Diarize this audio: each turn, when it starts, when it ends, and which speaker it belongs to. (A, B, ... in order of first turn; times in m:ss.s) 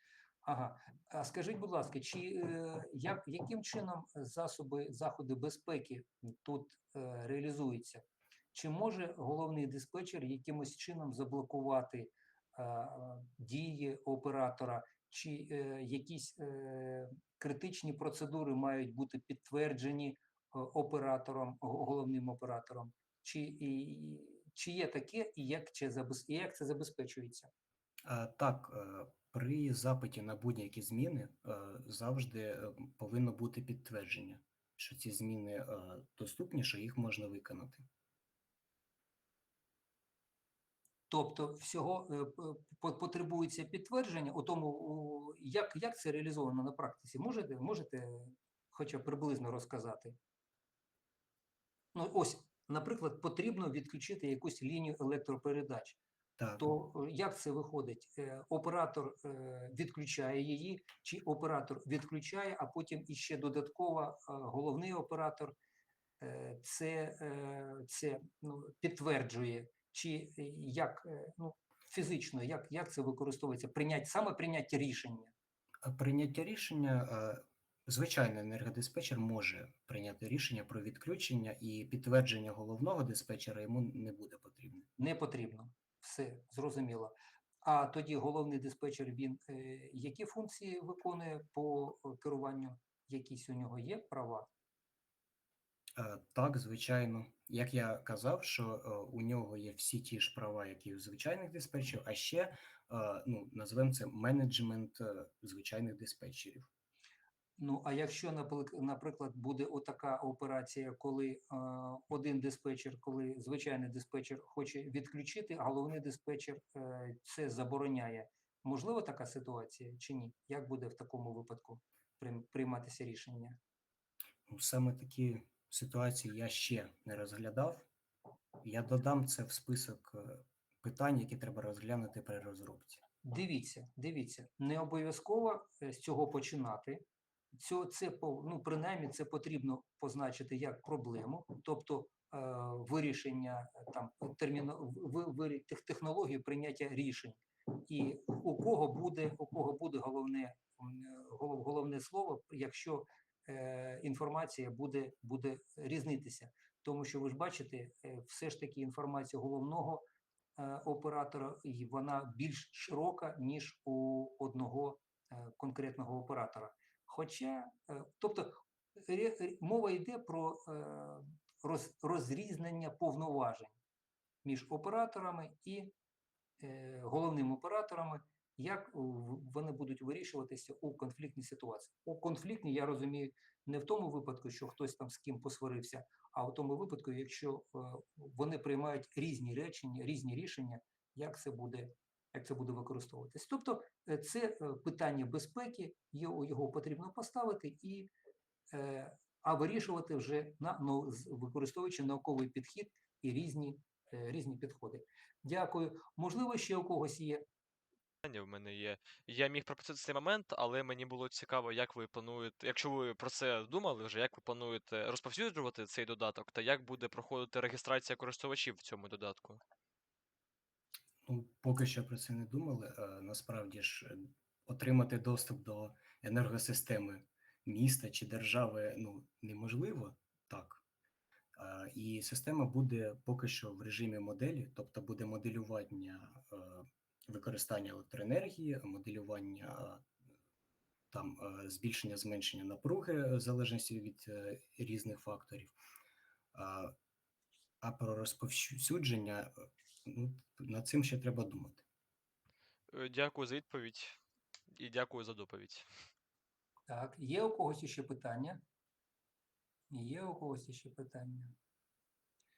0:00.4-0:27.5 A
0:28.0-0:37.8 B
0:41.1-0:50.2 A
0:51.9-0:56.0 A
0:56.4-0:56.7 B
0:56.6-1:05.6 A
1:06.2-1:15.3 A
1:15.8-1:24.9 B
1:25.0-1:34.5 A
1:36.0-1:46.7 B
1:47.6-2:03.6 A
2:04.5-2:07.9 B
2:08.6-2:13.0 B
2:13.2-2:40.0 A
2:40.6-2:53.8 A
2:54.4-2:55.9 A
2:56.6-3:18.1 A
3:18.7-3:27.4 A
3:28.2-3:39.6 C
3:41.2-3:50.8 B
3:51.6-4:00.1 B
4:01.1-4:05.7 B
4:06.5-4:06.9 B
4:07.8-4:09.5 B
4:10.0-4:11.8 B
4:12.9-4:14.1 C
4:14.7-4:15.8 C
4:16.9-4:18.6 A
4:19.9-4:21.5 A